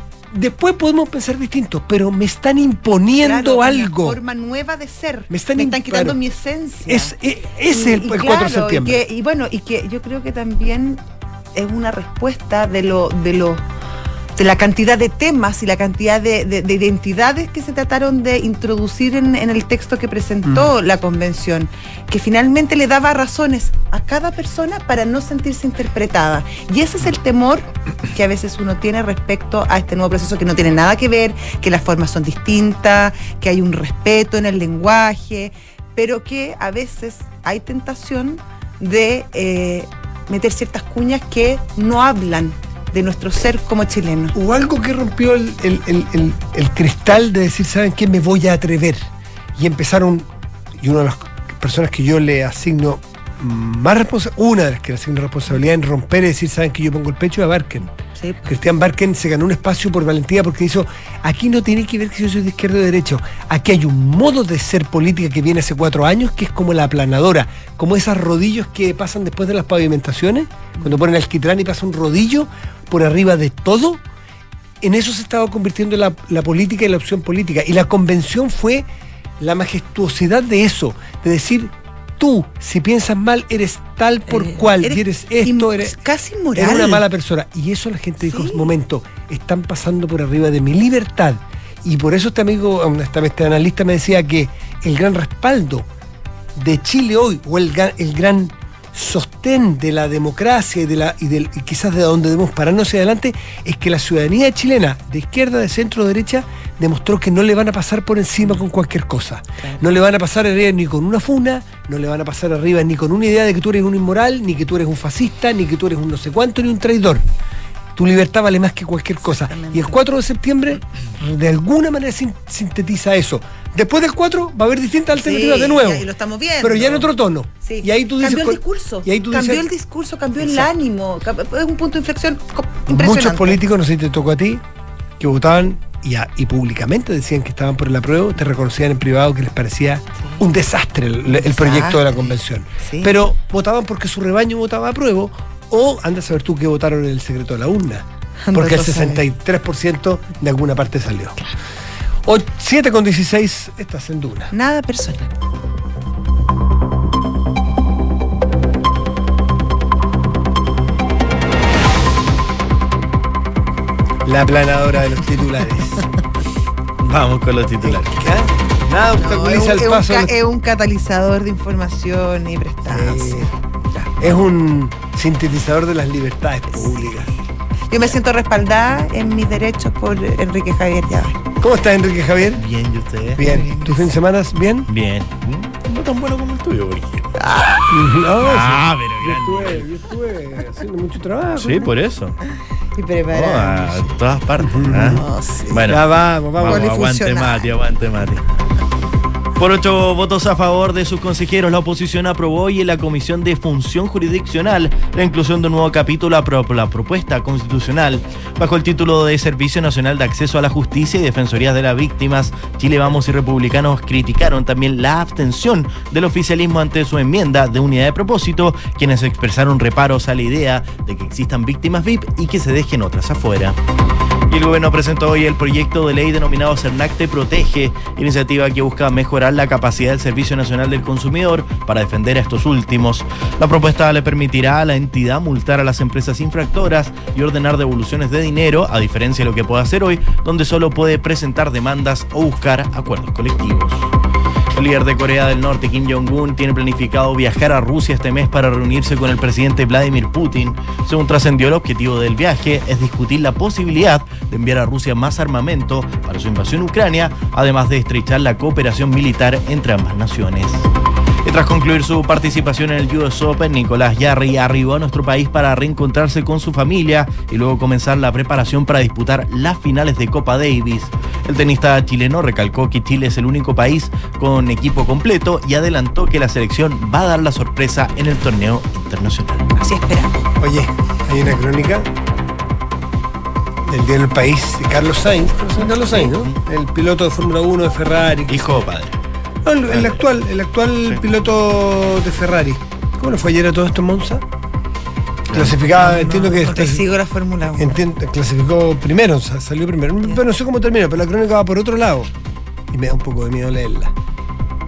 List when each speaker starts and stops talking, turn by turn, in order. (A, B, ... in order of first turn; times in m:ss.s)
0:00.3-0:04.2 A
0:03.1-0:07.1 B
0:05.3-0:06.2 A
0:06.8-0:09.0 A
0:07.7-0:11.0 B
0:11.5-0:13.6 B
0:14.4-0:44.3 B
0:44.3-0:57.9 A
0:58.2-0:58.5 B
0:58.4-1:14.0 A
1:14.8-1:18.9 A
1:19.4-1:26.0 A
1:24.3-1:27.0 B
1:26.5-1:35.9 A
1:28.2-1:28.7 B
1:36.6-1:57.2 A
1:58.0-2:06.1 A
1:59.3-2:00.0 B
2:05.1-2:07.1 B
2:06.6-2:09.7 A
2:07.6-2:13.6 B
2:10.4-2:10.7 A
2:12.9-2:14.6 A
2:15.2-2:31.4 A
2:21.3-2:23.1 B
2:28.4-2:29.2 B
2:32.2-2:34.5 A
2:34.5-2:35.3 B
2:44.2-2:46.1 A
2:47.0-2:48.3 C
2:47.8-2:50.3 A
2:49.2-2:53.5 B
2:52.8-2:53.5 A
2:54.0-2:57.3 A
2:56.8-2:57.0 B
2:57.9-3:01.4 B
3:01.6-3:02.6 A
3:02.6-3:04.0 C
3:03.3-3:04.9 A
3:04.9-3:07.5 C
3:07.4-3:07.8 B
3:07.9-3:11.9 A
3:08.3-3:09.8 C
3:11.6-3:12.4 C
3:13.0-3:14.2 B
3:13.3-3:16.0 C
3:14.6-3:15.2 A
3:15.1-3:15.8 B
3:15.8-3:16.9 A
3:16.6-3:18.4 C
3:16.6-3:17.7 B
3:19.6-3:43.8 C
3:44.5-4:04.1 C
4:04.7-4:20.9 C
4:21.4-4:39.7 C
4:39.8-4:40.5 B
4:40.6-4:42.1 A
4:43.9-4:48.8 A
4:46.1-4:46.6 C
4:48.5-4:49.1 C
4:49.6-4:54.4 A
4:49.9-4:50.2 C
4:55.5-4:55.8 C
4:55.5-4:57.1 A
4:55.9-4:58.0 B
4:57.7-5:02.3 A
5:02.9-5:04.1 A